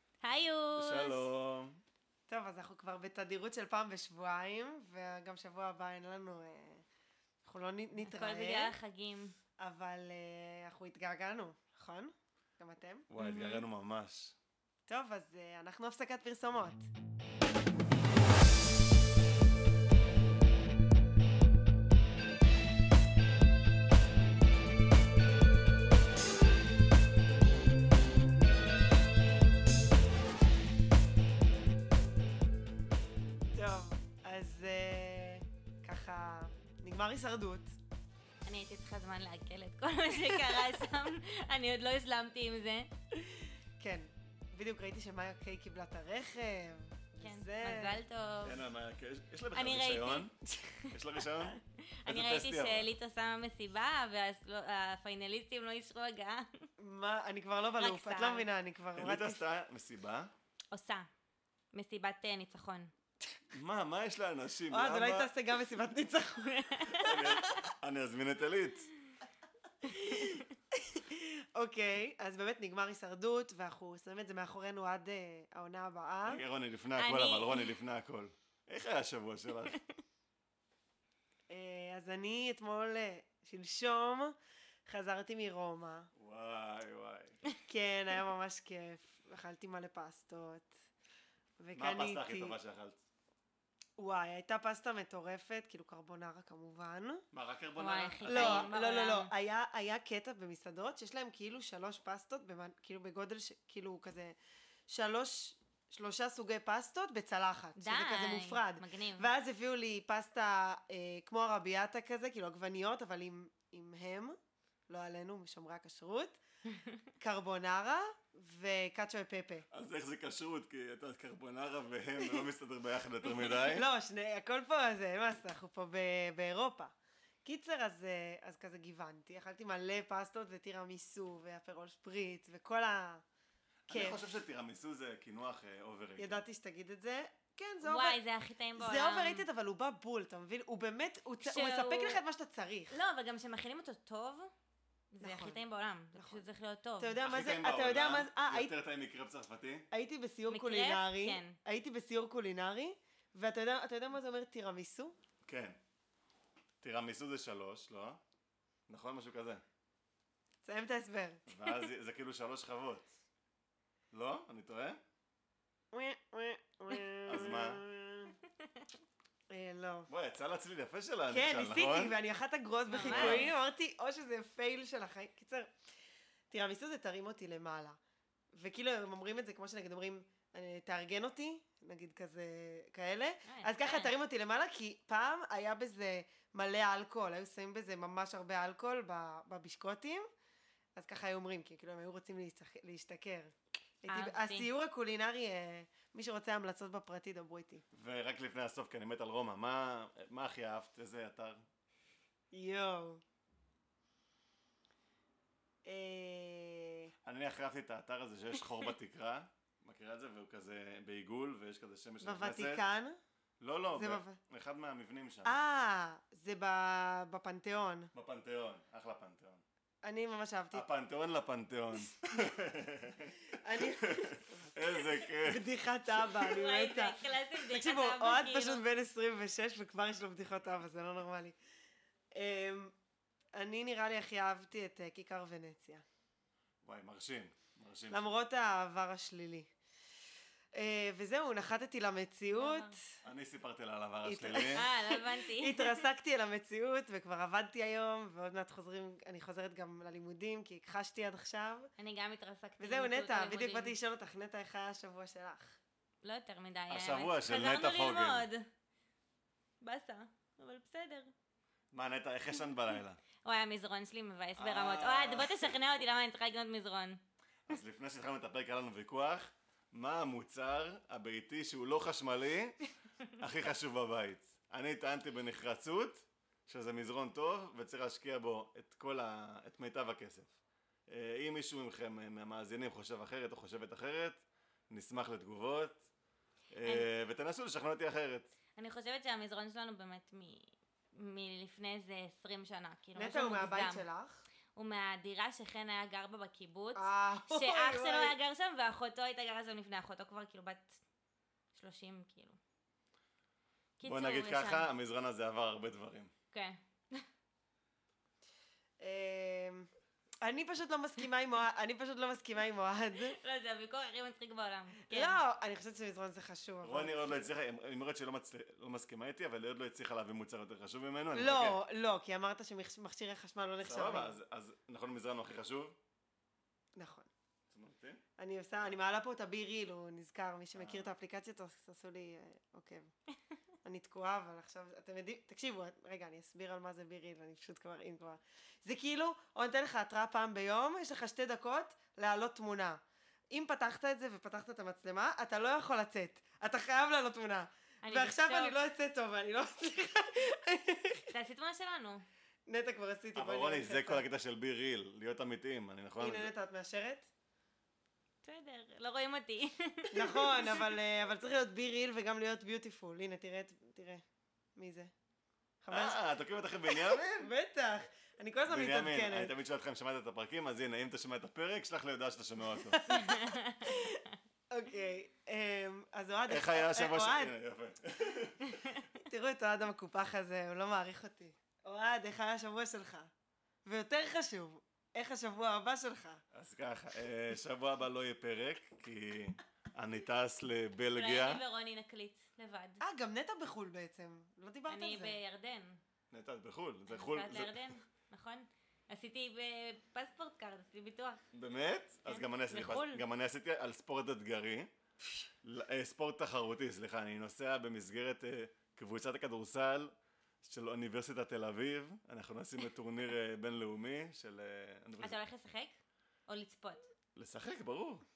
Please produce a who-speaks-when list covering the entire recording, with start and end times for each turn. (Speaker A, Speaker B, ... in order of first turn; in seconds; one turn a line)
Speaker A: 0.2-1.3
Speaker B: 0.8-1.8
Speaker C: 2.3-6.8
Speaker C: 7.5-8.7
Speaker A: 8.0-9.3
Speaker C: 9.6-13.1
Speaker B: 13.1-14.4
Speaker A: 13.2-13.7
Speaker C: 14.9-16.9
Speaker C: 33.5-37.8
Speaker A: 38.5-42.9
Speaker C: 43.8-48.0
Speaker A: 47.2-48.6
Speaker B: 48.4-50.3
Speaker A: 49.5-56.7
Speaker B: 50.9-52.9
Speaker C: 56.8-59.4
Speaker A: 57.8-58.5
Speaker B: 59.0-60.3
Speaker A: 60.7-61.1
Speaker A: 61.7-62.9
Speaker B: 63.5-65.3
Speaker C: 64.7-67.6
Speaker A: 66.7-67.2
Speaker B: 67.0-68.9
Speaker C: 69.8-76.4
Speaker B: 76.3-79.8
Speaker A: 77.0-77.8
Speaker C: 81.5-84.3
Speaker C: 84.9-86.1
Speaker B: 86.2-87.4
Speaker C: 87.7-90.7
Speaker C: 91.6-92.6
Speaker B: 91.8-93.0
Speaker C: 94.0-97.2
Speaker B: 97.3-98.7
Speaker A: 97.8-99.3
Speaker C: 98.3-104.4
Speaker C: 104.9-114.4
Speaker A: 107.8-109.3
Speaker C: 114.9-116.4
Speaker C: 117.2-119.7
Speaker B: 119.7-123.9
Speaker C: 122.2-122.5
Speaker C: 123.2-126.9
Speaker C: 127.5-133.2
Speaker B: 133.9-136.4
Speaker C: 133.9-134.2
Speaker C: 136.2-138.2
Speaker A: 137.8-139.4
Speaker C: 138.8-143.0
Speaker A: 141.4-142.2
Speaker A: 142.9-144.5
Speaker A: 145.1-147.2
Speaker C: 145.2-145.6
Speaker C: 146.1-146.4
Speaker C: 147.0-148.7
Speaker B: 147.2-149.9
Speaker C: 149.9-155.2
Speaker A: 150.5-151.6
Speaker B: 155.4-155.8
Speaker B: 156.8-158.2
Speaker B: 158.9-159.6
Speaker C: 160.6-161.5
Speaker B: 161.5-163.1
Speaker B: 164.1-165.0
Speaker C: 165.9-168.4
Speaker B: 167.3-167.8
Speaker C: 169.5-170.1
Speaker B: 170.1-172.2
Speaker C: 171.3-175.7
Speaker A: 172.9-173.5
Speaker B: 173.0-173.5
Speaker C: 176.5-178.0
Speaker C: 178.5-190.3
Speaker A: 183.5-184.1
Speaker C: 191.0-197.8
Speaker A: 194.1-194.7
Speaker B: 197.9-201.6
Speaker C: 202.5-203.2
Speaker C: 205.8-207.1
Speaker B: 207.2-212.8
Speaker C: 212.2-213.2
Speaker B: 213.6-215.5
Speaker C: 213.9-214.4
Speaker C: 215.4-218.1
Speaker B: 218.1-219.6
Speaker C: 220.0-220.9
Speaker B: 220.7-225.7
Speaker C: 222.2-222.5
Speaker C: 223.5-231.6
Speaker A: 226.2-228.8
Speaker C: 232.3-232.9
Speaker C: 233.6-236.0
Speaker B: 236.8-238.3
Speaker C: 238.1-239.7
Speaker C: 240.8-243.1
Speaker A: 242.6-243.0
Speaker B: 243.2-244.8
Speaker C: 244.2-251.9
Speaker A: 244.8-246.1
Speaker A: 252.0-254.0
Speaker C: 252.8-255.8
Speaker A: 256.2-258.6
Speaker B: 256.9-258.5
Speaker A: 259.8-261.3
Speaker B: 261.9-263.2
Speaker A: 263.4-267.2
Speaker B: 264.6-265.7
Speaker B: 267.7-272.8
Speaker B: 273.4-280.5
Speaker B: 281.1-286.0
Speaker B: 286.7-288.5
Speaker A: 288.8-294.0
Speaker C: 293.2-294.4
Speaker A: 294.8-301.0
Speaker C: 296.9-298.4
Speaker A: 301.7-302.6
Speaker A: 304.0-304.9
Speaker B: 304.0-306.3
Speaker A: 306.5-307.2
Speaker C: 309.0-309.9
Speaker C: 310.4-313.4
Speaker A: 313.2-315.4
Speaker C: 315.0-317.5
Speaker B: 316.8-321.8
Speaker C: 321.4-324.4
Speaker B: 323.8-326.0
Speaker C: 327.0-327.3
Speaker B: 327.7-328.2
Speaker C: 328.4-333.1
Speaker B: 330.8-331.1
Speaker C: 333.8-351.3
Speaker A: 348.0-348.8
Speaker A: 351.3-352.2
Speaker C: 352.7-354.2
Speaker B: 353.4-356.5
Speaker C: 356.2-357.3
Speaker A: 358.4-360.8
Speaker C: 360.1-364.2
Speaker C: 364.8-365.1
Speaker C: 365.8-366.2
Speaker B: 365.9-367.5
Speaker C: 366.9-369.5
Speaker B: 368.7-373.0
Speaker C: 372.7-377.5
Speaker A: 373.1-373.9
Speaker B: 376.5-378.9
Speaker C: 379.2-383.3
Speaker C: 383.9-386.4
Speaker B: 386.5-391.6
Speaker A: 391.1-393.0
Speaker C: 393.0-395.4
Speaker A: 394.9-396.0
Speaker B: 396.3-398.0
Speaker A: 397.1-401.4
Speaker B: 401.5-404.9
Speaker A: 402.3-403.2
Speaker B: 405.6-415.4
Speaker A: 415.2-415.9
Speaker A: 416.5-417.1
Speaker B: 417.4-418.2